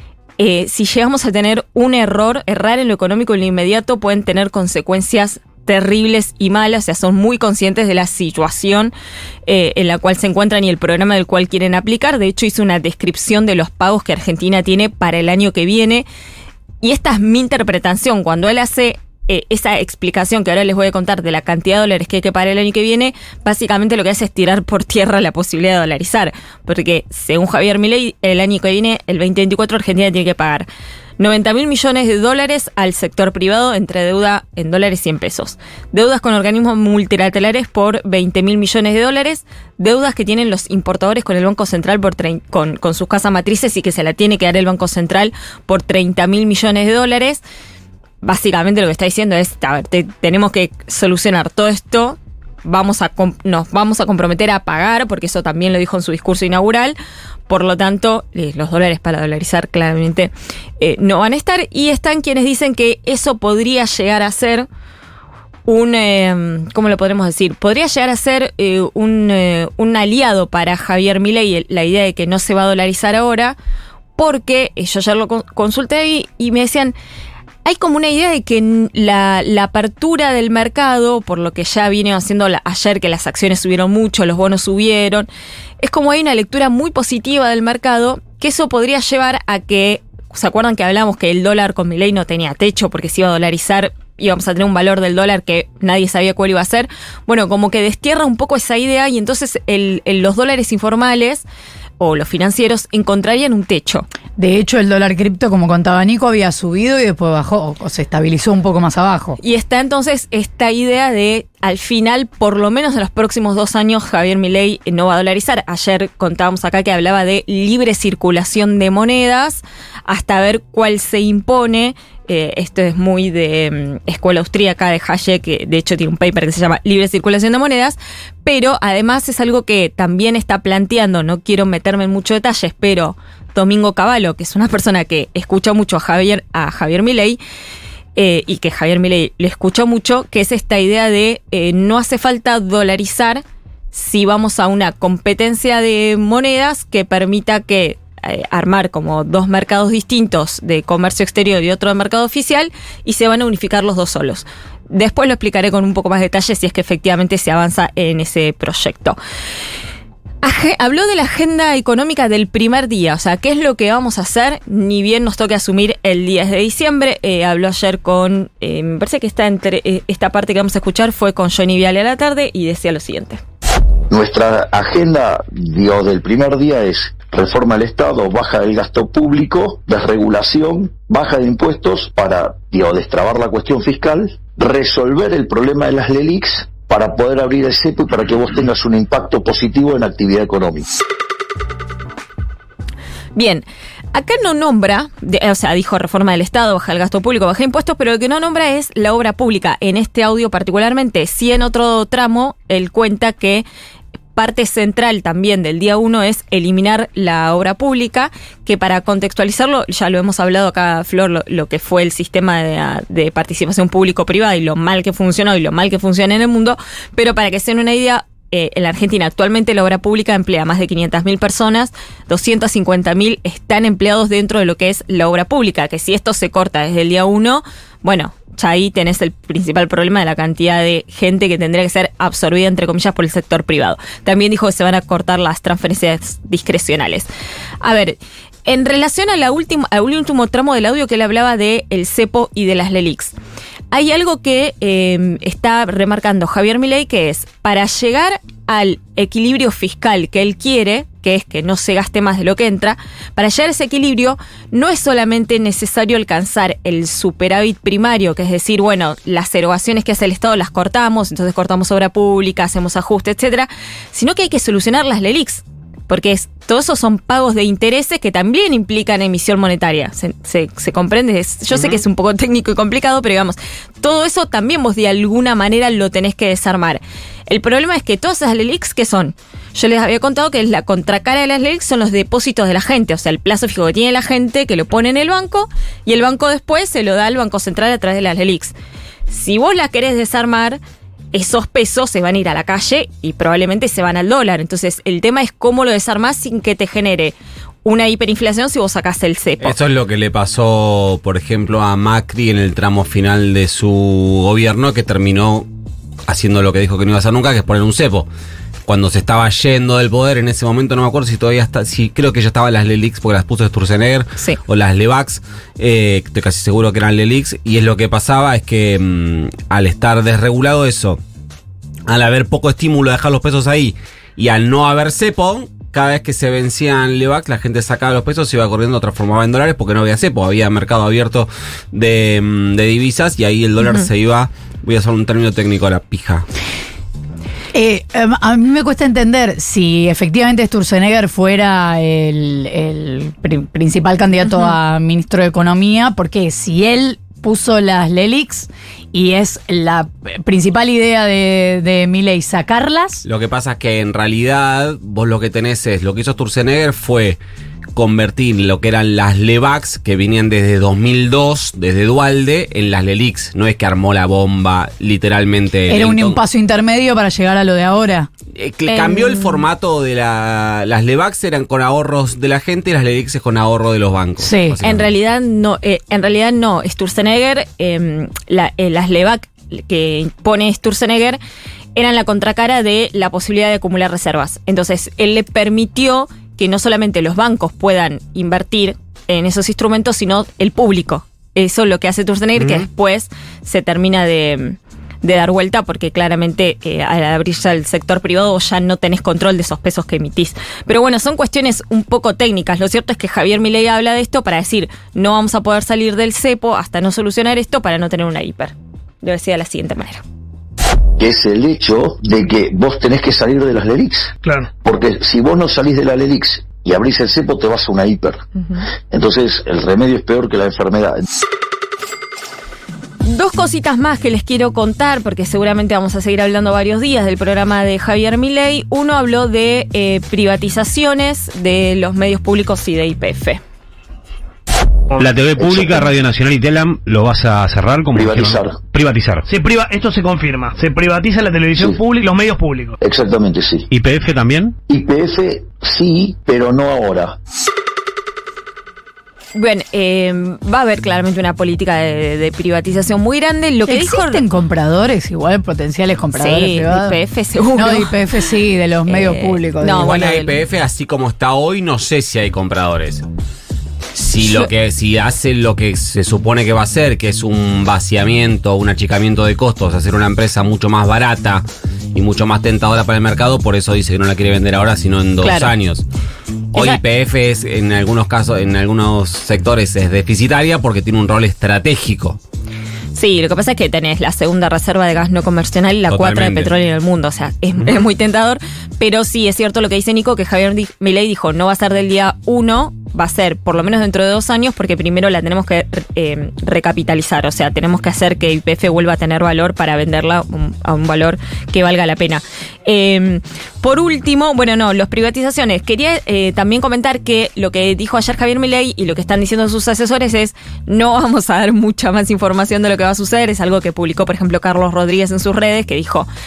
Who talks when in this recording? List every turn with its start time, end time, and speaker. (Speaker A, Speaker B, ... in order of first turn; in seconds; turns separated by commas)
Speaker A: 0.4-8.9, Speaker A: 9.4-16.1, Speaker A: 16.8-30.7, Speaker A: 31.2-47.4, Speaker A: 48.2-57.0, Speaker A: 57.5-64.7, Speaker A: 65.7-73.6, Speaker A: 74.2-76.9, Speaker A: 77.6-85.3, Speaker A: 85.8-101.5, Speaker A: 102.0-104.1, Speaker B: 104.4-109.4, Speaker A: 109.4-137.4, Speaker A: 138.2-159.2, Speaker A: 160.4-173.4, Speaker C: 174.1-190.9, Speaker A: 193.3-203.7, Speaker A: 204.3-237.3, Speaker A: 237.8-243.3, Speaker A: 243.9-288.8, Speaker D: 271.7-272.0, Speaker A: 289.3-290.8, Speaker A: 291.3-299.8, Speaker D: 299.6-305.7, Speaker D: 306.3-308.3, Speaker D: 308.9-321.2, Speaker D: 322.1-336.5, Speaker B: 337.7-353.2, Speaker D: 353.2-357.4, Speaker D: 357.9-366.4, Speaker B: 365.9-368.3, Speaker D: 368.5-375.1, Speaker A: 368.9-369.6, Speaker B: 374.4-374.8, Speaker A: 374.8-381.4, Speaker A: 381.9-410.2, Speaker C: 411.2-414.3, Speaker E: 414.4-414.7, Speaker C: 414.8-418.4, Speaker C: 419.1-421.2, Speaker A: 423.2-433.6, Speaker F: 435.2-439.4, Speaker C: 435.6-436.1, Speaker C: 438.1-438.8, Speaker E: 439.5-443.0, Speaker C: 441.8-442.0, Speaker C: 443.0-443.9, Speaker F: 443.9-444.8, Speaker C: 444.9-447.4, Speaker A: 449.6-454.4, Speaker B: 453.9-457.2, Speaker A: 456.4-458.5, Speaker B: 457.8-460.4, Speaker A: 459.1-460.6, Speaker D: 460.0-463.2, Speaker D: 464.1-476.1, Speaker A: 464.4-464.7, Speaker A: 475.4-475.7, Speaker D: 476.7-482.4, Speaker A: 476.7-477.0, Speaker A: 483.1-516.3, Speaker D: 486.1-486.7